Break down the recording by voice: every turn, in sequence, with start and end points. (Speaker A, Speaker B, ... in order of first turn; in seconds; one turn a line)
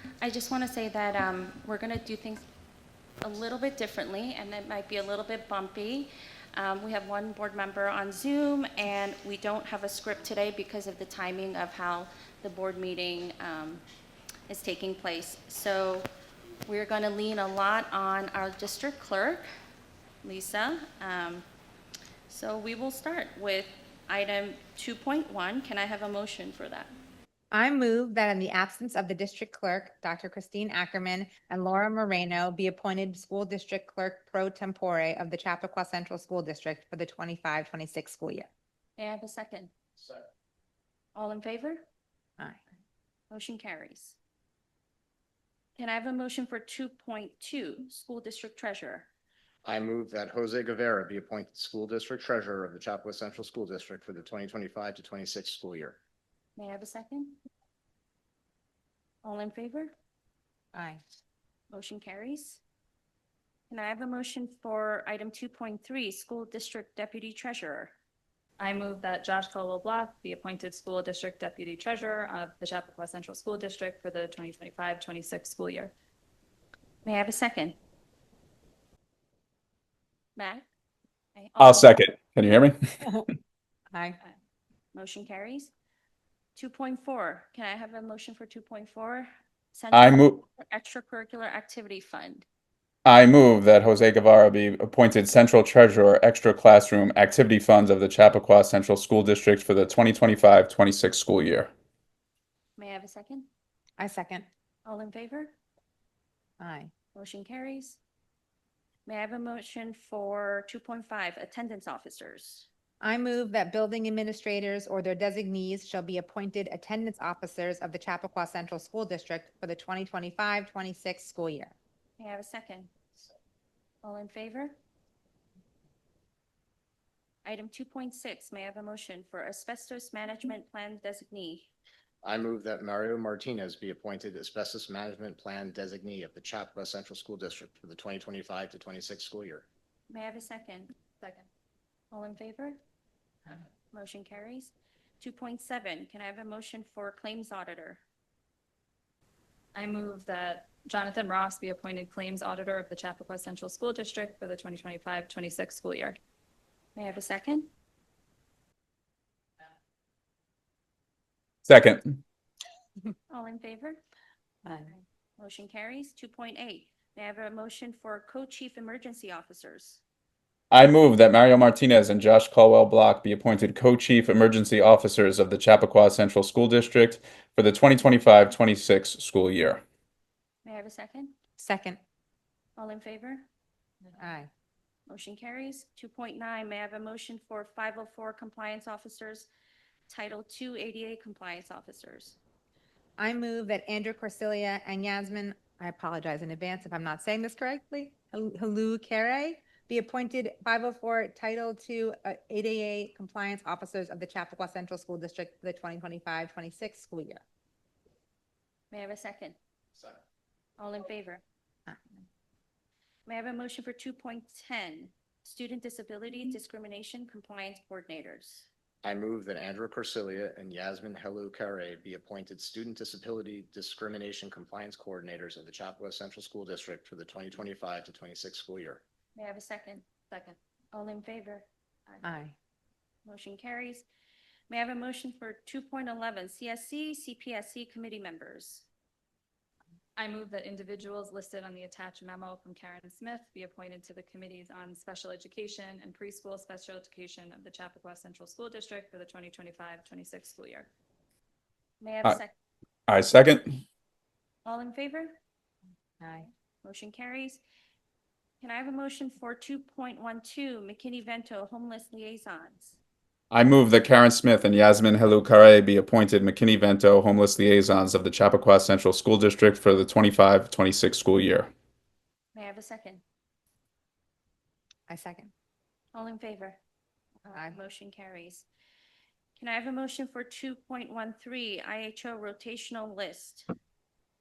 Speaker A: 0.2-2.5
Speaker A: 3.2-13.8
Speaker A: 14.5-16.1
Speaker A: 16.7-19.4
Speaker A: 20.2-21.4
Speaker A: 22.3-26.9
Speaker B: 27.5-38.5
Speaker A: 39.0-39.7
Speaker A: 41.1-41.8
Speaker A: 43.3-44.2
Speaker A: 45.8-49.1
Speaker C: 49.6-56.0
Speaker A: 56.6-57.4
Speaker A: 59.2-59.9
Speaker B: 60.7-61.0
Speaker A: 61.7-62.6
Speaker A: 63.7-67.9
Speaker D: 68.6-75.9
Speaker A: 77.0-77.8
Speaker A: 80.4-80.6
Speaker A: 81.3-82.0
Speaker E: 81.6-83.0
Speaker B: 83.9-84.2
Speaker A: 84.9-85.7
Speaker A: 86.5-92.5
Speaker E: 89.9-90.4
Speaker E: 93.0-101.7
Speaker A: 102.8-103.5
Speaker B: 104.0-104.5
Speaker A: 104.8-105.5
Speaker B: 106.6-106.9
Speaker A: 107.1-108.0
Speaker A: 109.1-112.7
Speaker B: 113.0-121.7
Speaker A: 122.2-122.9
Speaker A: 124.0-124.7
Speaker A: 127.4-131.7
Speaker C: 132.2-139.7
Speaker A: 140.1-140.9
Speaker A: 142.1-142.8
Speaker A: 143.9-148.0
Speaker D: 149.8-156.2
Speaker A: 156.9-157.7
Speaker E: 161.6-162.2
Speaker A: 163.3-164.0
Speaker B: 164.7-164.9
Speaker A: 164.9-170.0
Speaker E: 170.7-179.8
Speaker A: 180.6-181.3
Speaker B: 181.6-182.0
Speaker A: 182.8-183.4
Speaker B: 184.2-184.5
Speaker A: 185.1-189.5
Speaker A: 190.1-192.4
Speaker B: 193.2-207.4
Speaker A: 208.9-209.6
Speaker A: 210.8-211.4
Speaker B: 211.9-212.2
Speaker A: 213.2-218.7
Speaker C: 219.0-229.0
Speaker A: 229.3-230.1
Speaker A: 230.9-231.7
Speaker B: 232.2-232.5
Speaker A: 233.2-234.1
Speaker A: 234.7-238.8
Speaker D: 240.2-250.9
Speaker A: 252.0-252.5
Speaker E: 253.1-253.8
Speaker A: 254.6-255.3
Speaker B: 256.2-256.5
Speaker A: 256.8-257.6
Speaker A: 258.6-263.0
Speaker E: 263.5-271.7
Speaker A: 272.5-273.2
Speaker B: 275.1-275.5
Speaker A: 276.1-276.8
Speaker A: 277.4-278.7
Speaker A: 279.6-283.7